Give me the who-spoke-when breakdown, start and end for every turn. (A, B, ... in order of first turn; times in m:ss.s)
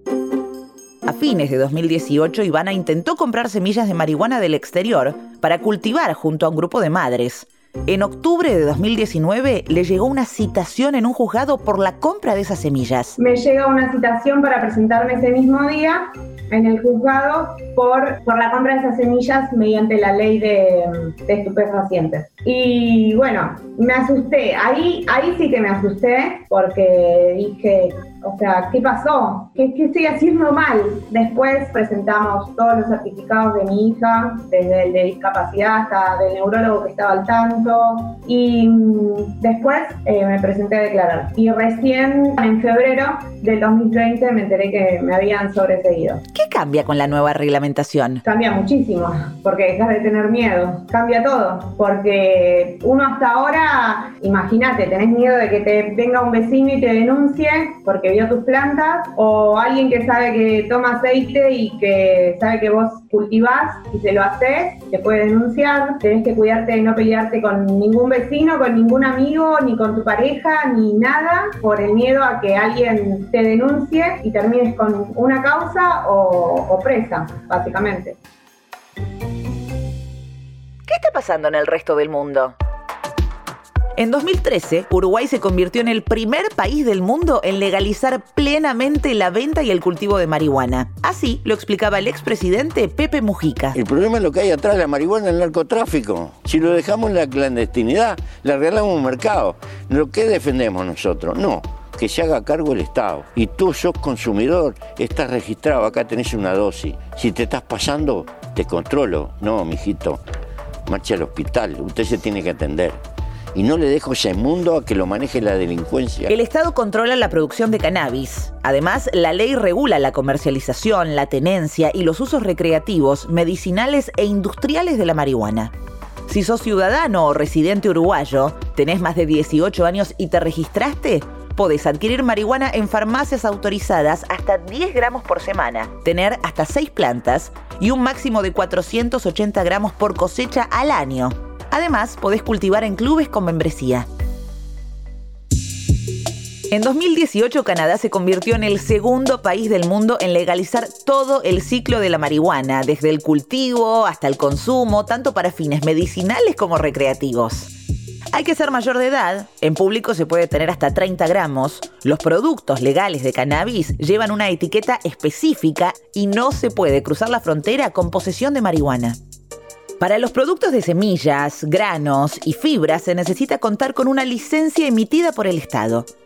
0:01.0-0:13.2 A
0:13.2-0:46.2 B
0:46.3-0:48.2 A
0:48.2-1:18.2 B
1:20.9-1:22.6 A
1:24.0-1:33.8 A
1:33.8-1:50.2 C
1:50.9-1:53.0 C
1:53.5-1:56.3 C
1:56.3-2:05.7 A
2:06.3-2:24.1 A
2:26.7-2:37.7 A
2:38.3-2:49.2 A
2:50.0-2:56.1 A